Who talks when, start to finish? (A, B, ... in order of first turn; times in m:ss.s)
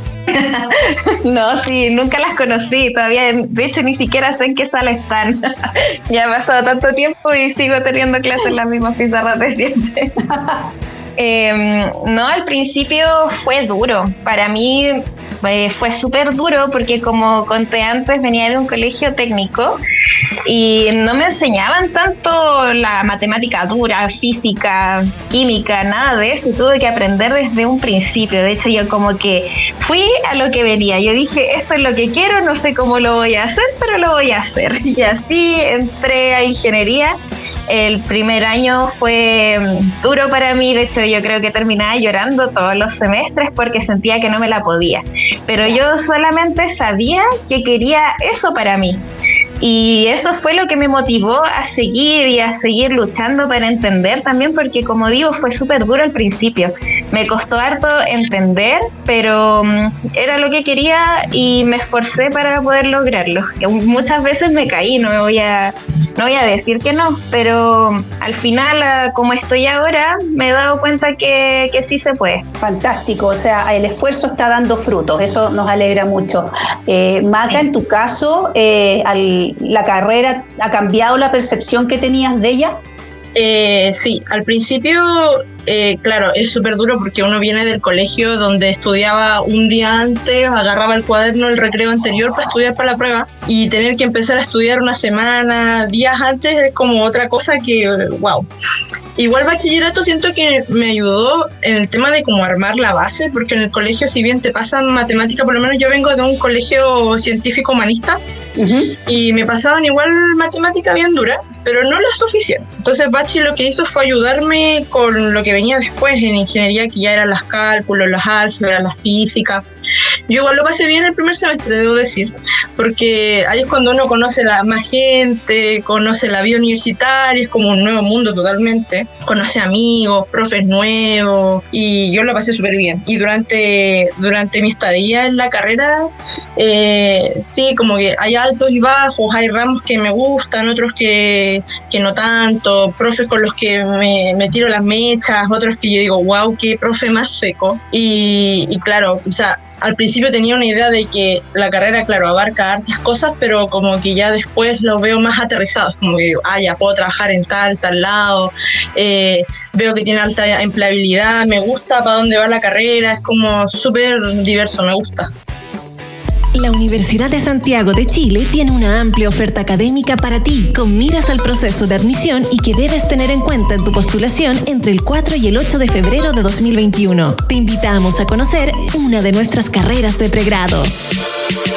0:00.3-0:10.2 A
0:10.3-0:10.6 B
0:11.2-0:19.8 A
0:20.5-0:37.2 A
0:37.7-0:49.0 A
0:49.6-1:12.4 A
1:12.6-1:22.8 B
1:23.4-1:38.5 C
1:39.2-1:48.2 C
1:48.6-1:49.0 B
1:49.1-1:59.6 C
2:00.3-2:45.3 C
2:46.6-3:00.9 D